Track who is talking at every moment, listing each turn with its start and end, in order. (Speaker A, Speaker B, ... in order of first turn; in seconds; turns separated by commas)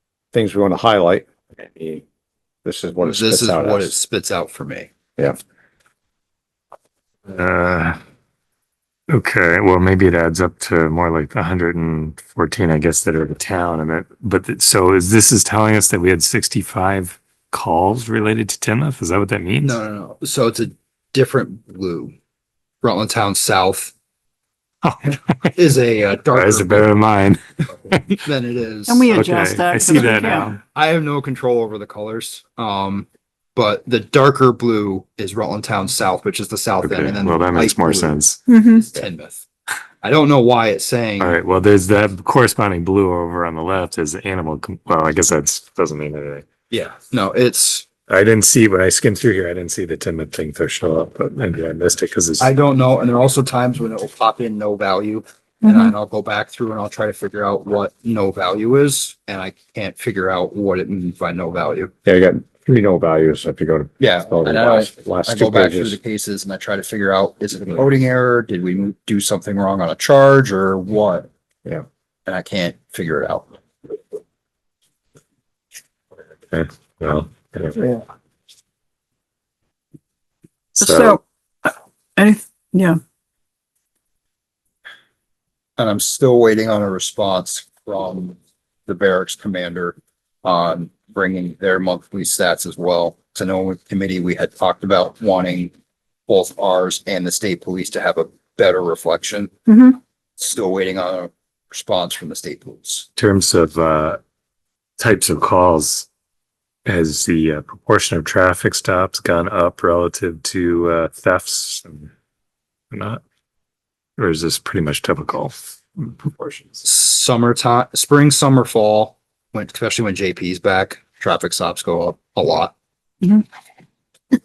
Speaker A: 0.3-2.0, Speaker A: 2.6-3.9, Speaker B: 3.0-4.9, Speaker C: 7.3-8.0, Speaker C: 9.1-19.8, Speaker B: 19.6-22.1, Speaker B: 22.8-23.9, Speaker C: 24.8-25.5, Speaker B: 25.5-26.9, Speaker C: 26.3-28.2, Speaker B: 28.1-29.1, Speaker D: 28.9-30.5, Speaker C: 29.1-30.6, Speaker B: 30.0-39.4, Speaker C: 36.8-38.4, Speaker D: 38.5-38.8, Speaker B: 40.0-41.4, Speaker C: 41.2-46.4, Speaker B: 46.7-47.9, Speaker C: 48.1-52.5, Speaker B: 52.4-61.9, Speaker D: 55.6-55.9, Speaker A: 62.0-66.0, Speaker B: 64.0-71.3, Speaker B: 72.2-73.5, Speaker C: 76.5-77.8, Speaker D: 80.7-83.0, Speaker C: 80.8-81.2, Speaker B: 85.8-95.7, Speaker B: 96.3-99.5, Speaker D: 99.7-100.0, Speaker B: 100.4-103.1, Speaker C: 103.2-104.2, Speaker C: 105.0-106.1, Speaker C: 106.8-112.1, Speaker C: 112.9-113.2, Speaker C: 114.2-116.8, Speaker B: 116.8-122.7